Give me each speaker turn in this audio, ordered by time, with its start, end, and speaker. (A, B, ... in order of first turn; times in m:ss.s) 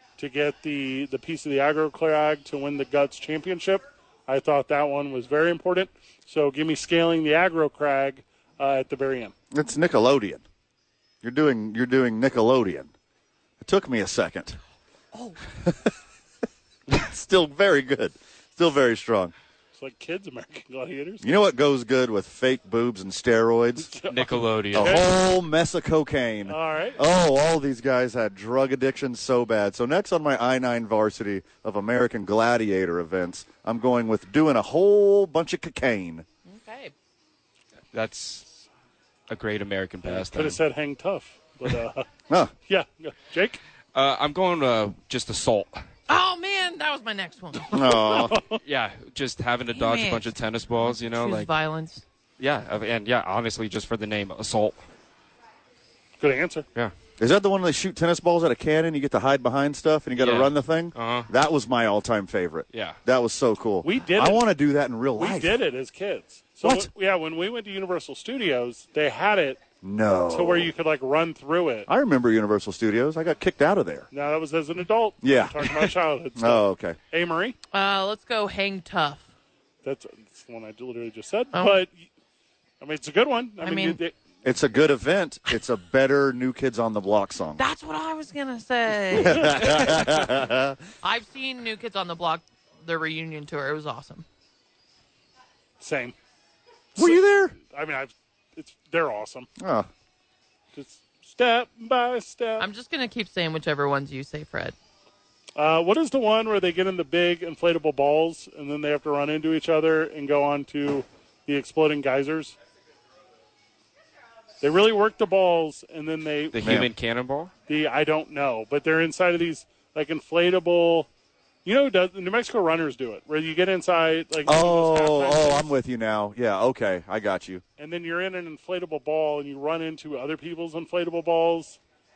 0:00.2-0:09.3 A
0:09.5-0:10.4 B
0:11.2-0:12.9 B
0:13.6-0:14.6 B
0:15.6-0:15.9 B
0:16.9-0:19.3 B
0:19.8-0:21.2 A
0:21.2-0:23.9 B
0:23.8-0:25.0 A
0:24.1-0:25.0 C
0:24.7-0:36.3 B
0:26.4-0:27.0 A
0:36.5-0:36.9 D
0:37.9-0:38.6 C
0:39.3-0:40.6 C
0:40.0-0:42.0 A
0:42.7-0:43.6 A
0:43.9-0:45.8 C
0:46.1-0:48.1 D
0:47.7-0:48.4 B
0:48.0-0:48.6 A
0:48.6-0:51.5 C
0:49.7-0:50.3 D
0:50.8-0:52.0 D
0:52.4-0:54.8 C
0:56.2-0:56.6 A
0:57.2-1:05.6 B
1:00.2-1:01.3 C
1:02.7-1:03.0 C
1:03.8-1:04.4 A
1:05.2-1:09.6 A
1:06.6-1:06.9 B
1:09.8-1:10.7 B
1:10.3-1:11.9 A
1:11.9-1:14.1 B
1:14.1-1:17.6 A
1:15.2-1:17.0 B
1:17.7-1:19.2 D
1:19.8-1:22.0 A
1:21.5-1:21.8 D
1:22.8-1:24.1 A
1:23.6-1:24.0 D
1:24.4-1:27.6 B
1:27.6-1:30.2 D
1:29.1-1:30.8 B
1:31.0-1:34.2 D
1:35.8-1:36.1 A
1:37.0-1:39.5 A
1:37.0-1:37.6 B
1:39.6-1:39.9 B
1:40.7-1:42.7 A
1:42.6-1:44.7 D
1:45.6-1:52.6 A
1:54.6-1:56.6 A
1:56.5-1:57.5 C
1:56.6-1:56.9 B
1:57.7-2:01.1 A
2:01.6-2:05.7 A
2:04.4-2:07.6 B
2:07.8-2:11.8 A